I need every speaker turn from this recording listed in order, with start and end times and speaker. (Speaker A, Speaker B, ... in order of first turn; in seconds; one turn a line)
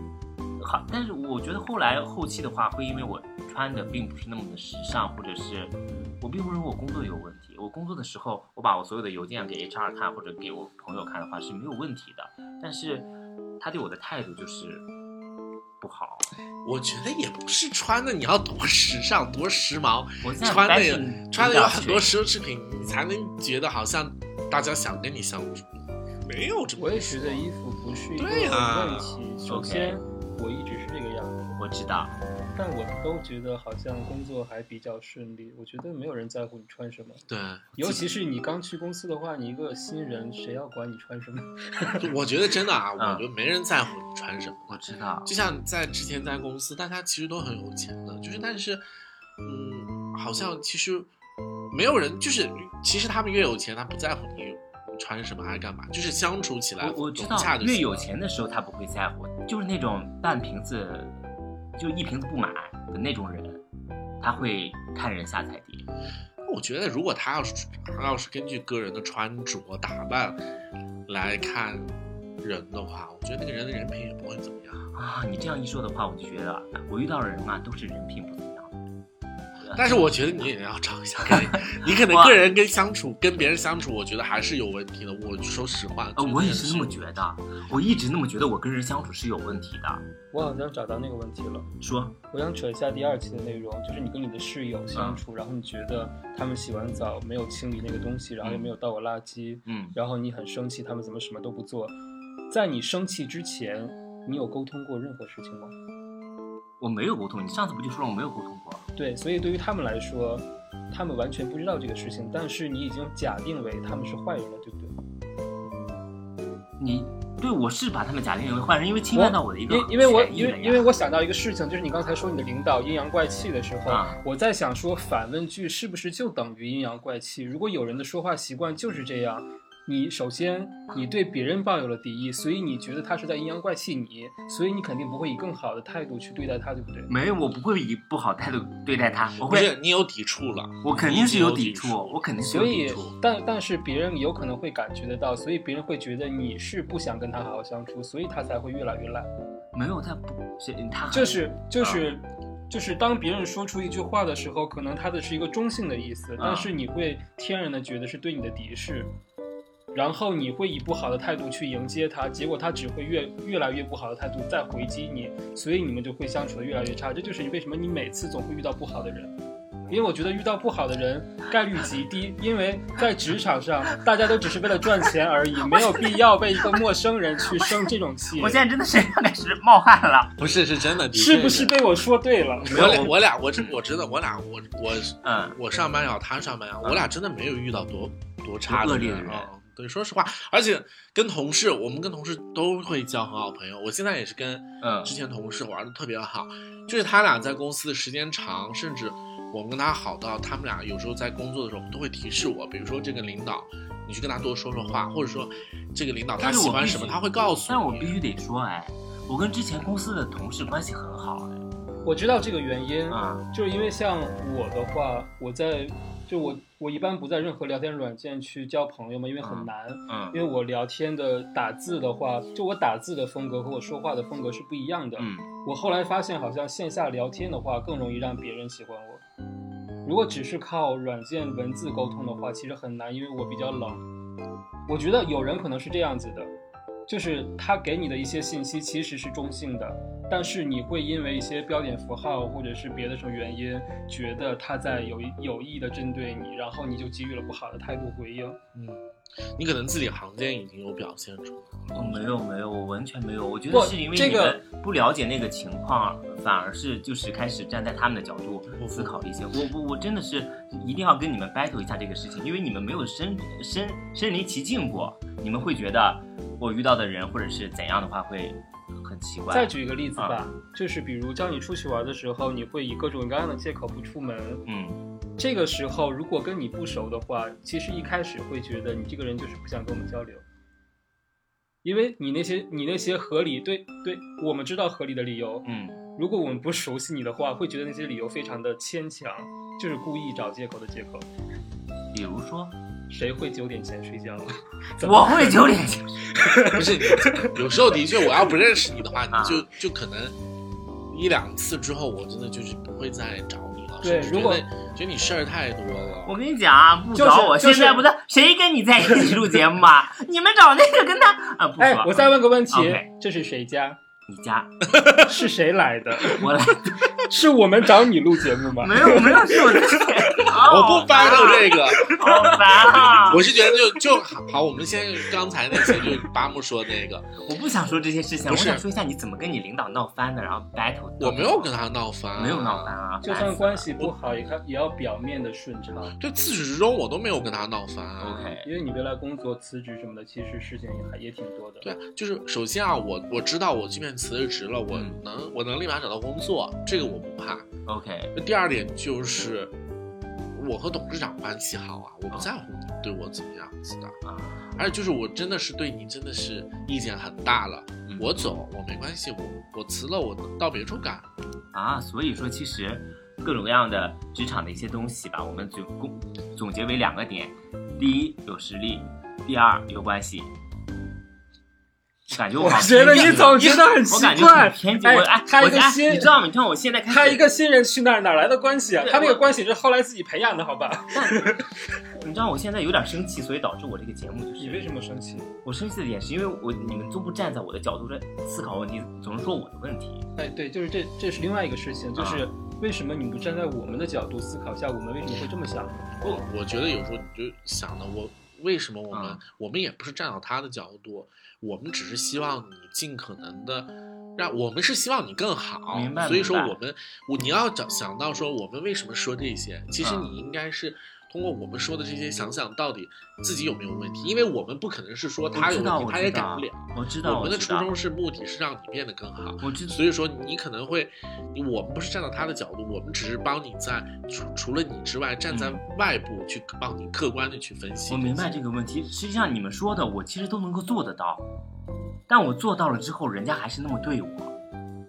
Speaker A: 0.6-14.9
Speaker A: 15.8-16.3
Speaker B: 16.6-27.5
Speaker A: 20.2-22.1
Speaker C: 26.8-31.5
Speaker B: 28.2-29.2
Speaker A: 29.5-30.0
Speaker A: 31.6-32.2
Speaker C: 32.5-37.3
Speaker B: 37.3-37.9
Speaker C: 37.8-42.1
Speaker B: 42.0-48.9
Speaker A: 43.0-43.3
Speaker A: 44.7-45.3
Speaker B: 49.4-51.1
Speaker B: 51.7-58.1
Speaker A: 56.8-63.6
Speaker A: 64.2-65.9
Speaker B: 66.5-70.4
Speaker B: 71.1-74.8
Speaker A: 74.9-78.8
Speaker A: 79.6-80.5
Speaker B: 79.7-87.1
Speaker A: 81.2-82.4
Speaker A: 86.2-90.1
Speaker C: 90.3-91.7
Speaker A: 91.8-92.2
Speaker C: 92.3-102.0
Speaker A: 94.9-95.2
Speaker A: 98.4-98.7
Speaker A: 99.7-100.0
Speaker C: 102.5-105.7
Speaker A: 106.8-108.9
Speaker C: 109.0-114.9
Speaker A: 116.8-120.9
Speaker C: 119.1-137.1
Speaker A: 123.9-124.2
Speaker A: 137.1-139.7
Speaker B: 139.4-142.2
Speaker A: 140.8-143.2
Speaker C: 142.4-149.3
Speaker A: 149.7-152.0
Speaker C: 151.1-159.1
Speaker A: 156.4-156.7
Speaker C: 159.9-169.3
Speaker C: 169.9-178.6
Speaker A: 178.4-180.4
Speaker B: 180.4-181.8
Speaker C: 181.1-183.0
Speaker A: 182.6-183.6
Speaker B: 182.7-208.2
Speaker A: 185.2-185.6
Speaker A: 186.8-187.1
Speaker A: 188.7-189.5
Speaker A: 194.8-195.2
Speaker A: 206.4-211.7
Speaker C: 212.1-229.2
Speaker A: 213.1-213.5
Speaker A: 219.4-220.4
Speaker A: 225.2-225.5
Speaker C: 230.1-234.1
Speaker C: 234.9-236.5
Speaker C: 237.1-248.6
Speaker B: 248.7-252.4
Speaker A: 251.9-270.4
Speaker C: 253.7-254.6
Speaker B: 258.7-259.2
Speaker C: 269.5-274.6
Speaker A: 274.7-275.0
Speaker C: 275.4-280.4
Speaker C: 281.8-291.3
Speaker A: 285.6-286.0
Speaker A: 292.1-292.8
Speaker C: 293.1-295.7
Speaker A: 295.0-296.5
Speaker C: 296.4-297.5
Speaker B: 296.7-300.4
Speaker A: 299.3-299.7
Speaker B: 301.1-306.4
Speaker C: 304.0-304.6
Speaker A: 306.3-313.1
Speaker C: 307.1-308.1
Speaker C: 311.8-314.0
Speaker A: 314.3-314.9
Speaker B: 314.9-315.3
Speaker C: 315.2-316.4
Speaker A: 316.2-317.1
Speaker C: 317.3-320.1
Speaker A: 318.8-323.5
Speaker B: 320.5-322.2
Speaker B: 323.2-327.4
Speaker A: 327.4-331.7
Speaker B: 328.4-328.9
Speaker B: 331.2-333.0
Speaker A: 332.4-333.9
Speaker C: 333.2-336.1
Speaker B: 336.2-338.5
Speaker A: 338.2-338.7
Speaker C: 338.6-341.9
Speaker B: 341.8-347.7
Speaker A: 344.9-345.2
Speaker A: 347.0-347.2
Speaker A: 347.9-348.4
Speaker B: 348.4-349.7
Speaker B: 350.5-354.2
Speaker A: 354.2-354.8
Speaker B: 354.8-361.3
Speaker A: 358.1-358.4
Speaker A: 361.7-370.5
Speaker A: 372.3-377.5
Speaker C: 372.6-376.3
Speaker B: 373.0-373.9
Speaker C: 377.1-381.7
Speaker A: 379.0-379.6
Speaker A: 381.1-381.5
Speaker A: 382.1-384.9
Speaker C: 384.6-385.5
Speaker A: 385.6-390.3
Speaker C: 390.4-396.4
Speaker A: 392.2-392.5
Speaker B: 396.2-428.5
Speaker A: 399.1-399.4
Speaker A: 405.9-406.8
Speaker A: 410.0-410.3
Speaker A: 415.5-417.9
Speaker A: 419.6-420.0
Speaker A: 425.5-425.8
Speaker A: 428.1-431.5
Speaker A: 432.3-434.5